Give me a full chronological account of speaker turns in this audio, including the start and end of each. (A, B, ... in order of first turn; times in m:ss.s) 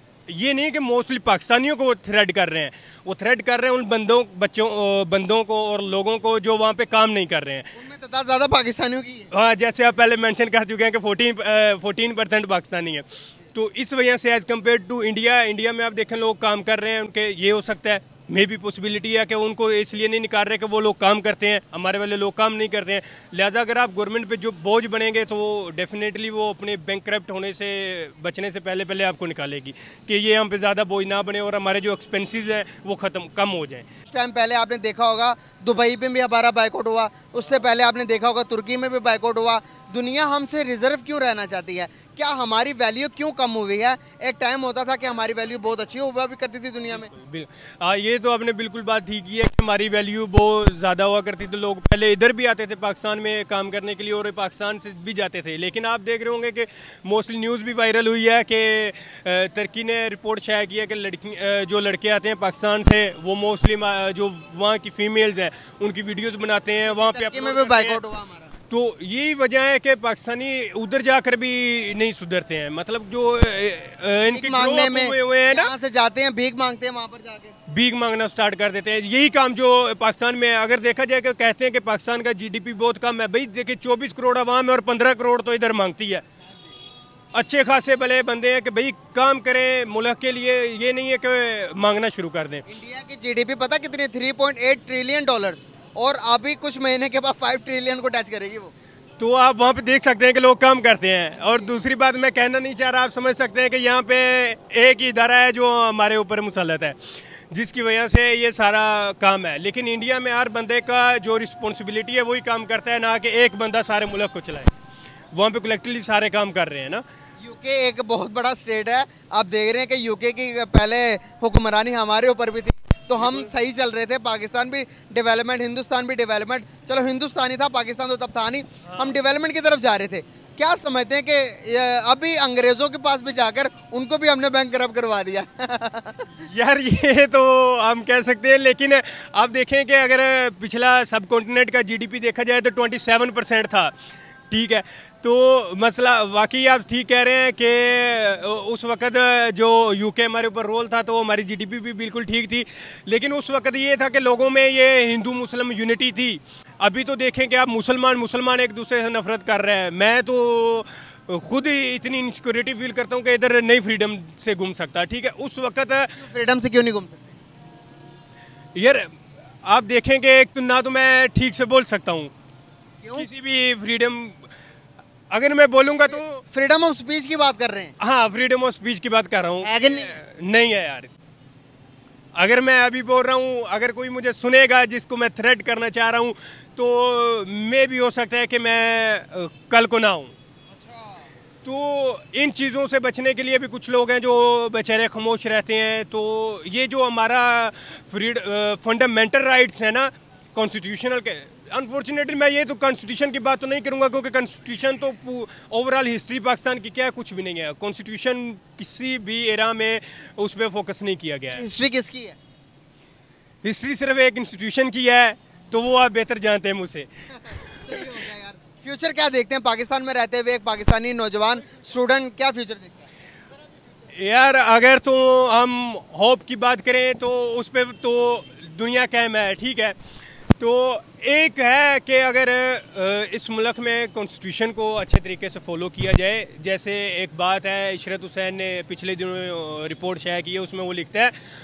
0:00.3-0:07.7 A
0:07.7-0:09.3 B
0:09.3-0:33.8 A
0:34.1-0:47.1 B
0:46.9-1:08.0 A
1:06.9-1:08.5 B
1:08.7-1:15.7 A
1:14.3-1:17.5 B
1:17.7-1:26.2 A
1:27.3-1:32.6 A
1:32.7-1:38.7 B
1:39.2-1:47.0 A
1:47.5-1:54.7 A
1:55.3-1:57.0 A
1:57.4-2:16.3 B
2:03.2-2:03.5 A
2:08.8-2:09.2 A
2:16.4-2:23.9 A
2:24.5-2:46.2 A
2:46.2-2:47.3 B
2:48.7-2:49.1 A
2:49.6-2:52.3 A
2:53.2-2:54.5 A
2:55.3-2:56.4 A
2:56.1-2:57.9 B
2:58.0-3:01.1 A
2:59.6-3:00.2 B
3:02.3-3:10.3 A
3:10.7-3:11.3 B
3:11.6-3:31.7 A
3:31.5-3:32.4 B
3:33.6-3:37.1 A
3:37.4-3:43.0 B
3:44.1-3:50.0 A
3:50.6-4:01.3 A